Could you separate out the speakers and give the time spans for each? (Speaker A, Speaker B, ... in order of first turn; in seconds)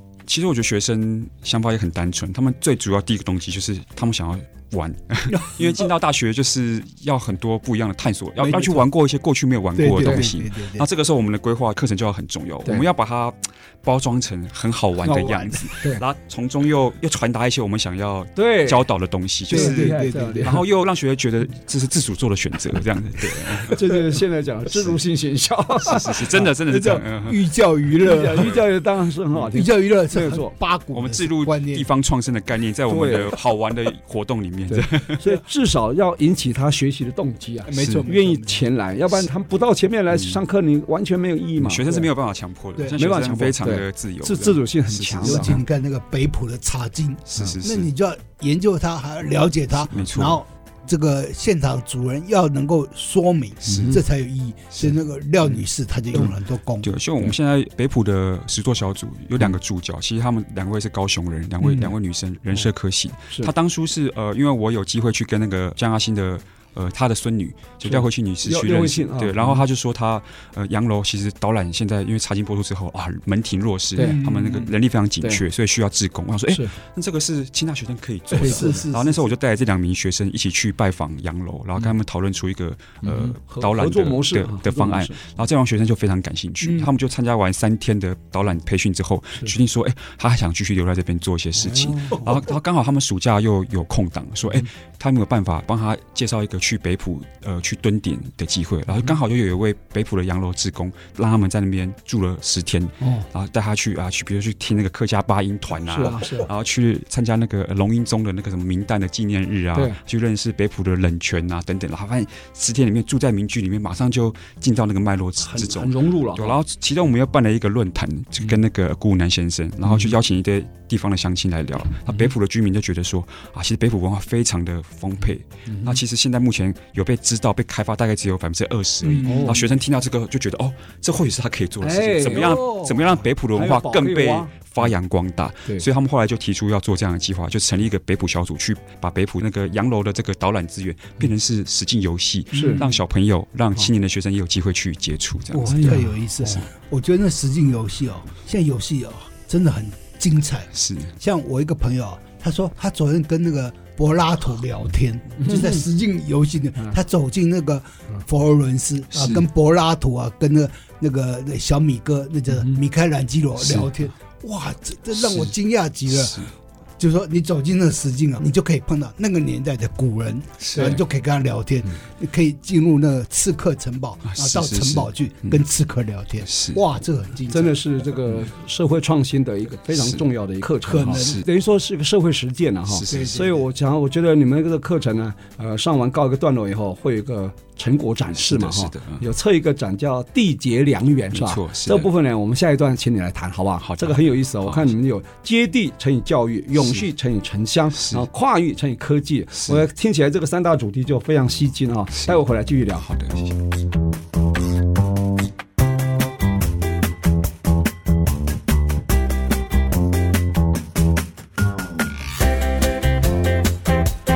Speaker A: 0.3-23.8, 25.8-27.4, 30.9-35.4, 37.8-38.1, 40.1-40.4, 41.6-45.6, 47.3-47.9, 49.9-50.4, 53.7-54.0, 56.8-146.6, 150.7-151.1, 163.6-163.9, 166.1-166.5, 170.6-170.9, 174.3-175.6, 176.5-176.8, 181.1-181.4, 182.9-183.4, 188.4-189.2, 191.3-192.1, 193.8-194.9, 203.0-203.6
Speaker B: 5.3-5.8, 8.4-8.9, 9.8-10.9, 19.5-20.6, 26.7-28.5, 29.5-31.9, 37.7-38.6, 45.2-56.9, 74.0-74.7, 78.4-79.3, 129.1-129.6, 132.3-133.1, 142.6-142.9, 145.5-177.8, 180.8-181.4, 183.1-183.7
Speaker C: 10.0-10.3, 15.0-16.0, 18.4-18.9, 19.5-20.6, 23.7-26.5, 28.0-30.5, 32.9-33.4, 34.7-42.1, 43.0-45.5, 53.7-54.0, 67.8-69.6, 74.0-74.2, 78.3-78.8, 83.0-85.2, 91.6-92.2, 103.0-103.3, 105.8-106.5, 109.7-110.0, 115.4-116.5, 125.7-126.0, 129.2-129.6, 131.8-132.7, 133.5-134.5, 142.5-142.8, 145.7-146.1, 155.4-155.8, 170.8-171.0, 177.5-203.1